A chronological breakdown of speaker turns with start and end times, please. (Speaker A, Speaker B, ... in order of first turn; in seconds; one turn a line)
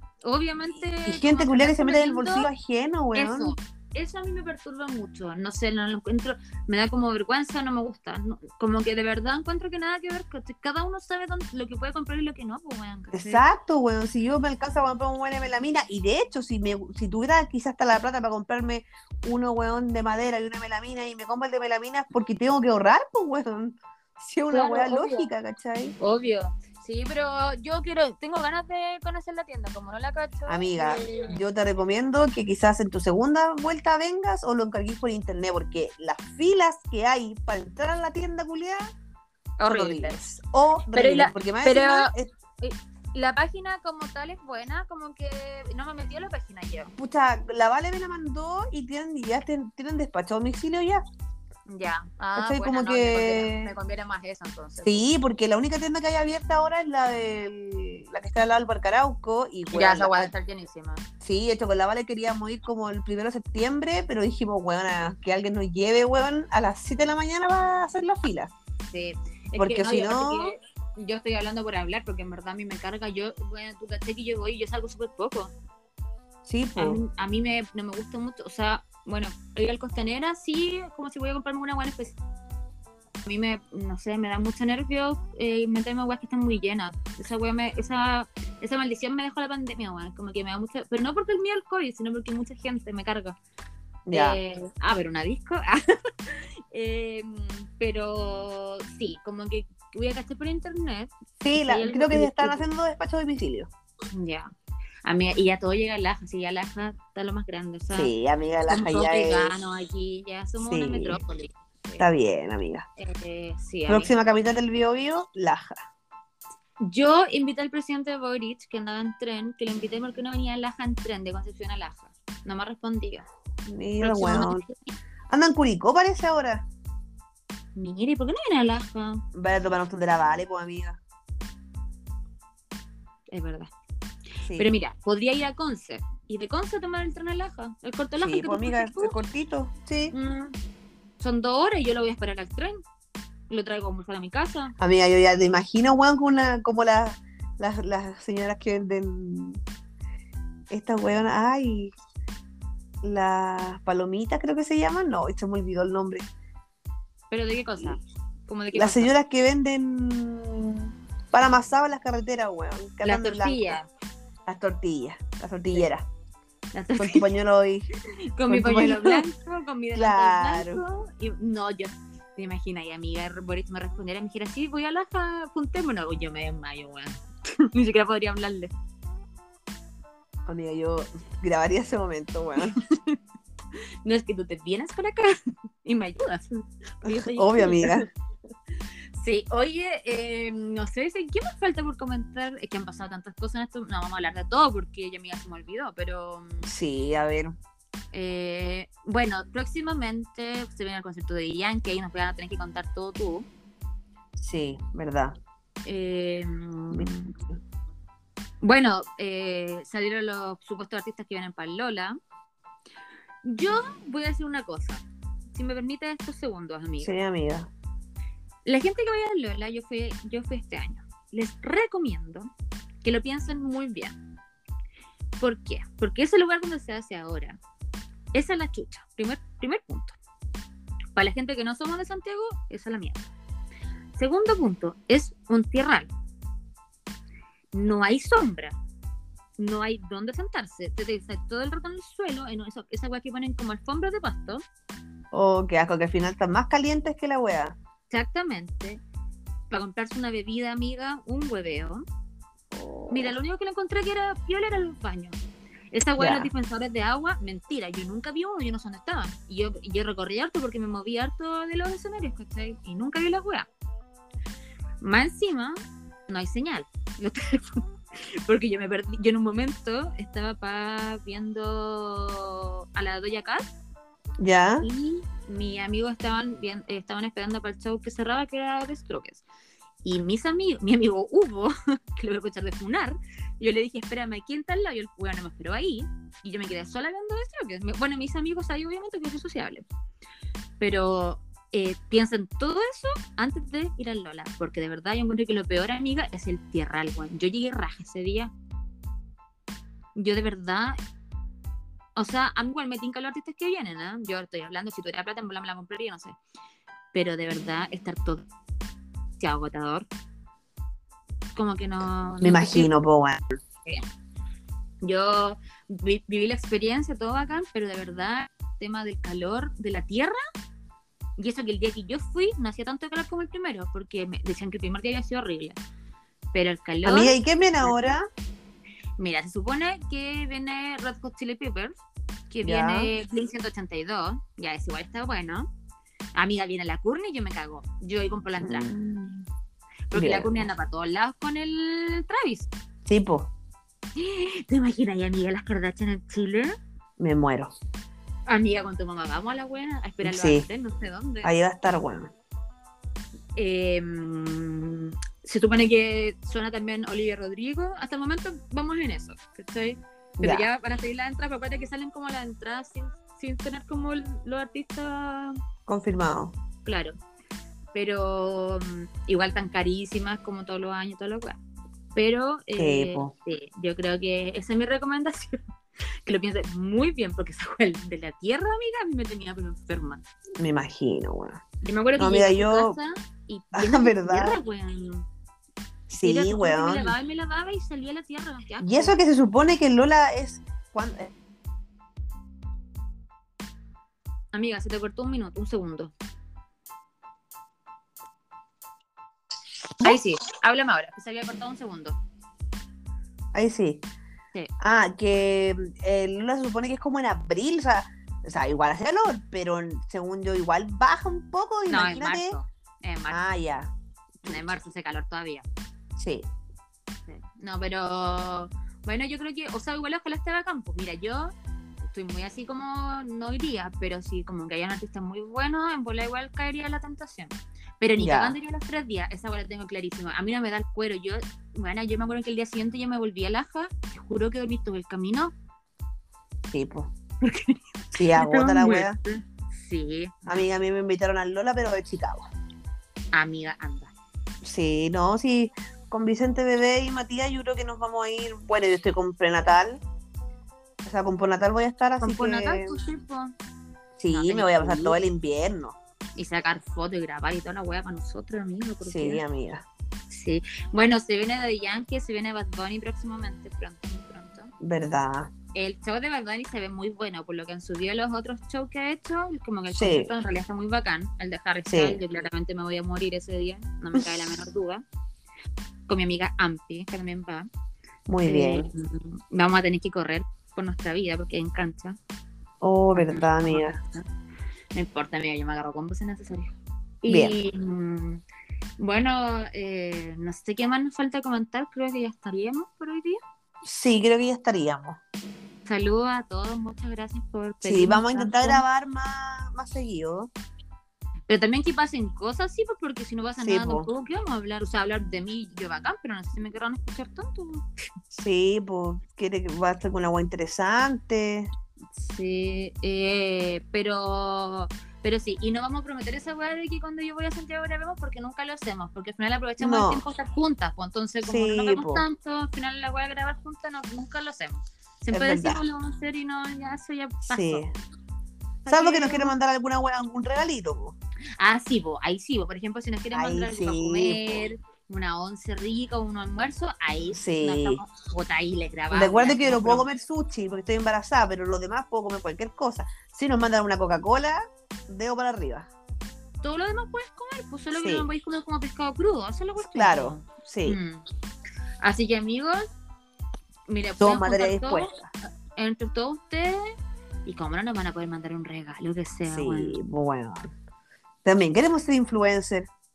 Speaker A: 0.2-2.5
Speaker B: 1.0-3.5
Speaker A: 3.1-13.4
Speaker B: 13.1-25.9
Speaker A: 24.5-25.3
Speaker A: 26.0-31.4
Speaker B: 30.5-38.9
Speaker A: 39.6-40.2
Speaker B: 39.7-42.3
Speaker A: 40.9-46.9
Speaker B: 47.0-51.0
Speaker A: 51.7-55.0
Speaker B: 52.4-53.7
Speaker B: 54.8-60.3
Speaker A: 59.7-61.0
Speaker B: 61.2-68.5
Speaker A: 68.9-75.5
Speaker B: 69.6-70.5
Speaker B: 76.5-77.0
Speaker A: 76.8-82.2
Speaker A: 83.2-93.4
Speaker B: 94.1-94.4
Speaker A: 94.1-102.7
Speaker B: 101.4-103.7
Speaker A: 104.1-104.5
Speaker A: 105.0-108.1
Speaker B: 107.9-109.5
Speaker A: 108.7-112.1
Speaker B: 110.6-111.2
Speaker B: 112.0-112.9
Speaker A: 113.0-114.1
Speaker B: 113.9-115.8
Speaker A: 116.8-123.2
Speaker B: 123.7-124.6
Speaker A: 124.0-124.9
Speaker B: 125.3-126.7
Speaker A: 127.8-129.2
Speaker B: 129.3-131.0
Speaker A: 133.3-133.7
Speaker B: 134.4-134.7
Speaker A: 134.6-139.2
Speaker B: 138.2-140.1
Speaker A: 140.1-140.6
Speaker A: 141.2-142.8
Speaker A: 143.5-144.7
Speaker B: 144.8-149.6
Speaker B: 150.7-151.9
Speaker B: 153.0-156.3
Speaker A: 157.3-159.1
Speaker B: 158.7-163.8
Speaker A: 163.0-163.9
Speaker B: 164.5-166.1
Speaker A: 166.7-167.3
Speaker B: 167.0-167.9
Speaker A: 168.3-178.7
Speaker B: 168.5-169.2
Speaker B: 169.9-170.8
Speaker B: 180.5-182.8
Speaker A: 182.8-183.2
Speaker A: 184.0-188.1
Speaker B: 187.0-188.1
Speaker A: 189.2-196.7
Speaker B: 196.6-197.6
Speaker A: 198.1-203.5
Speaker B: 204.4-205.4
Speaker A: 205.8-207.3
Speaker B: 206.9-207.6
Speaker A: 208.6-212.2
Speaker A: 213.4-217.2
Speaker B: 217.0-217.7
Speaker A: 218.7-222.5
Speaker A: 223.0-224.2
Speaker A: 225.4-227.6
Speaker A: 228.3-230.2
Speaker A: 231.2-233.3
Speaker A: 234.2-236.1
Speaker A: 237.7-238.8
Speaker A: 239.6-244.6
Speaker B: 245.3-247.8
Speaker A: 248.1-249.0
Speaker A: 249.7-252.1
Speaker B: 252.7-253.3
Speaker A: 253.1-255.4
Speaker A: 255.9-263.7
Speaker B: 256.2-256.5
Speaker A: 265.0-265.8
Speaker A: 266.3-273.7
Speaker B: 274.4-274.9
Speaker A: 274.8-279.4
Speaker A: 280.0-289.9
Speaker A: 290.8-298.5
Speaker A: 300.2-301.0
Speaker A: 302.2-306.4
Speaker A: 307.1-308.5
Speaker A: 309.4-310.1
Speaker A: 311.6-312.9
Speaker B: 312.4-313.6
Speaker A: 315.0-320.4
Speaker A: 321.4-325.8
Speaker A: 326.5-328.1
Speaker B: 327.0-328.2
Speaker A: 329.2-332.0
Speaker A: 332.5-335.7
Speaker B: 332.6-333.1
Speaker A: 336.4-338.9
Speaker B: 338.6-339.4
Speaker A: 340.1-342.7
Speaker B: 340.1-340.6
Speaker B: 343.1-343.5
Speaker A: 344.2-346.8
Speaker B: 347.2-347.7
Speaker A: 348.5-351.5
Speaker B: 350.2-350.7
Speaker B: 351.4-352.3
Speaker A: 353.6-365.6
Speaker B: 360.4-360.7
Speaker B: 365.9-366.5
Speaker A: 366.9-367.2
Speaker A: 367.9-371.6
Speaker A: 372.1-375.6
Speaker B: 372.8-373.3
Speaker A: 376.2-380.2
Speaker B: 380.6-381.6
Speaker A: 381.8-385.3
Speaker B: 382.2-383.0
Speaker B: 383.7-384.6
Speaker B: 386.1-387.1
Speaker A: 386.2-389.1
Speaker B: 388.8-391.3
Speaker A: 394.5-396.1
Speaker A: 400.0-402.2
Speaker B: 403.5-404.1
Speaker B: 404.8-412.6
Speaker A: 411.9-413.4
Speaker B: 413.3-414.7
Speaker A: 414.4-415.6
Speaker B: 416.2-416.5
Speaker A: 417.3-421.5
Speaker A: 422.1-435.5
Speaker B: 428.2-428.6
Speaker B: 436.7-437.1
Speaker A: 437.4-440.7
Speaker B: 438.1-439.2
Speaker B: 440.4-442.5
Speaker A: 443.3-444.1
Speaker B: 444.6-450.0
Speaker B: 451.0-452.9
Speaker A: 452.2-453.5
Speaker B: 454.2-456.0
Speaker A: 454.3-455.2
Speaker A: 456.4-459.4
Speaker B: 459.0-459.9
Speaker A: 460.3-464.7
Speaker B: 464.8-465.5
Speaker A: 465.7-475.0
Speaker B: 469.9-470.3
Speaker B: 471.9-472.2
Speaker A: 476.1-477.7
Speaker B: 478.3-478.9
Speaker A: 478.4-482.2
Speaker B: 482.8-484.0
Speaker A: 483.1-484.3
Speaker A: 484.9-488.4
Speaker B: 487.3-487.6
Speaker A: 489.0-493.4
Speaker B: 493.8-495.2
Speaker A: 495.9-498.8
Speaker B: 497.8-500.5
Speaker A: 501.5-507.9
Speaker B: 503.6-504.1
Speaker B: 508.3-511.7
Speaker A: 512.2-527.9
Speaker B: 519.8-520.2
Speaker B: 521.5-522.2
Speaker B: 525.3-525.8
Speaker B: 527.5-527.9
Speaker A: 528.9-529.5
Speaker B: 528.9-531.2
Speaker A: 531.6-540.1
Speaker B: 533.3-534.6
Speaker B: 537.3-538.0
Speaker B: 539.1-545.9
Speaker A: 546.6-551.2
Speaker B: 547.9-548.3
Speaker B: 549.8-551.0
Speaker A: 552.0-552.9
Speaker A: 553.9-555.1
Speaker B: 554.2-555.3
Speaker A: 555.8-556.9
Speaker A: 557.5-560.0
Speaker B: 559.5-560.7
Speaker B: 561.5-562.9